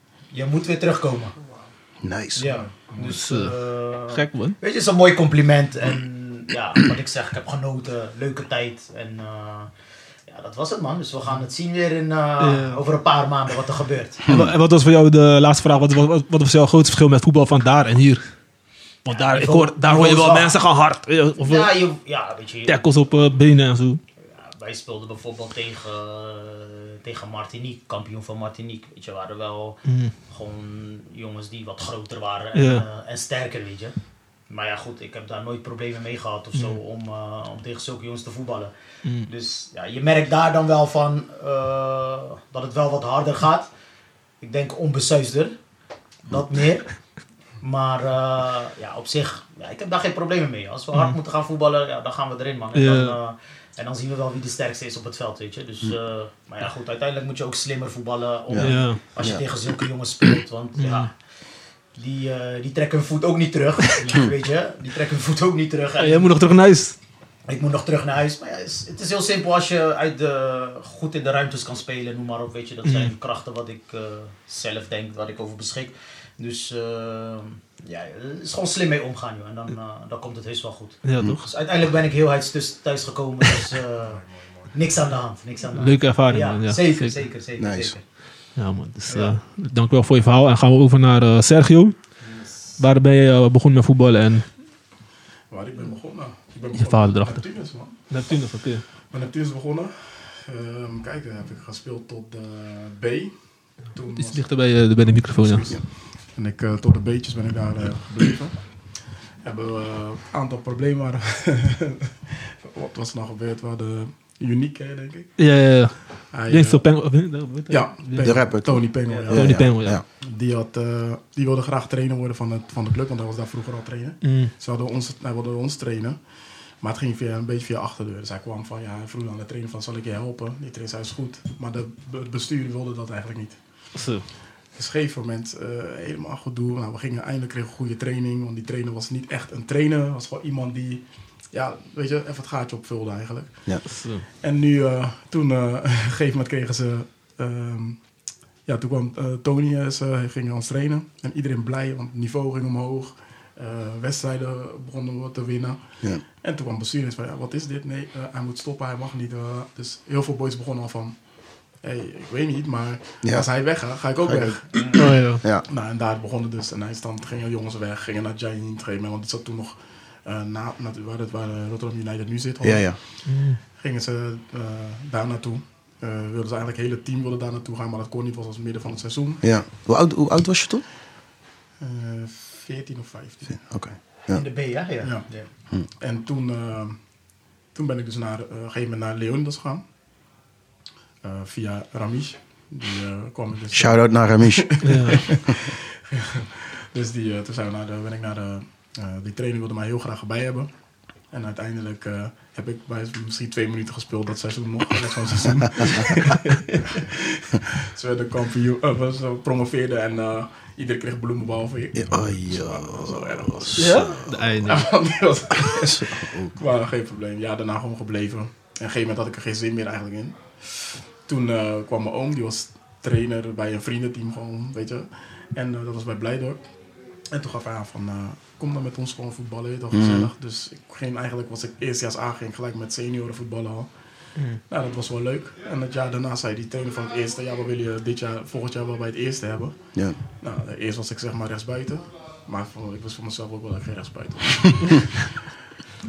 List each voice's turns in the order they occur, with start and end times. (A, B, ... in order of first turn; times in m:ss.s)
0:00.3-0:01.4 A
0:02.0-0:02.6 B
0:02.4-0:09.7 A
0:02.5-0:03.1 C
0:03.0-0:03.6 D
0:04.1-0:04.6 D
0:10.3-0:14.2 A
0:12.4-0:12.8 D
0:14.3-0:18.2 D
0:19.0-0:21.7 D
0:19.1-0:20.6 A
0:21.4-0:22.9 A
0:22.7-0:24.0 D
0:24.4-0:34.0 A
0:29.9-0:30.1 D
0:32.6-0:32.8 D
0:34.5-0:38.7 A
0:39.2-0:43.7 A
0:44.4-0:45.6 A
0:46.3-0:46.9 A
0:47.6-1:01.1 A
0:52.8-0:53.2 D
0:58.5-0:59.4 B
0:58.6-0:59.0 D
1:00.8-1:01.1 D
1:02.0-1:06.3 A
1:06.0-1:07.0 D
1:07.5-1:24.2 A
1:12.8-1:13.1 D
1:21.0-1:21.5 D
1:24.7-1:28.0 A
1:25.8-1:27.2 D
1:27.6-1:27.9 B
1:28.6-1:32.0 D
1:29.1-1:29.4 C
1:32.8-1:34.5 D
1:35.5-1:38.0 C
1:36.8-1:37.4 D
1:38.1-1:38.8 D
1:39.1-1:43.3 C
1:43.9-1:48.6 C
1:44.2-1:45.7 D
1:49.4-1:55.3 C
1:55.4-1:58.4 D
1:56.3-1:56.8 C
1:57.7-2:06.2 C
1:58.2-2:00.0 B
1:59.3-2:00.0 D
2:04.2-2:04.5 D
2:06.8-2:13.6 C
2:14.0-2:14.2 D
2:14.8-2:23.6 C
2:23.9-2:24.2 D
2:24.4-2:28.0 C
2:28.7-2:35.8 C
2:36.4-2:41.2 C
2:41.8-2:45.0 C
2:44.2-2:45.6 B
2:44.9-2:45.4 D
2:45.7-2:53.0 C
2:52.6-2:53.0 B
2:53.3-2:53.6 D
2:53.8-2:59.4 C
2:59.4-3:00.8 B
3:01.8-3:03.6 C
3:03.6-3:04.4 B
3:04.3-3:05.5 A
3:06.0-3:07.0 C
3:07.7-3:09.8 C
3:11.2-3:20.7 C
3:13.7-3:14.9 B
3:14.8-3:15.2 D
3:21.3-3:46.6 C
3:32.0-3:34.2 B
3:33.8-3:34.9 D
3:35.7-3:36.6 B
3:47.3-3:53.9 C
3:49.9-3:50.3 B
3:54.7-3:59.8 C
4:00.4-4:05.4 C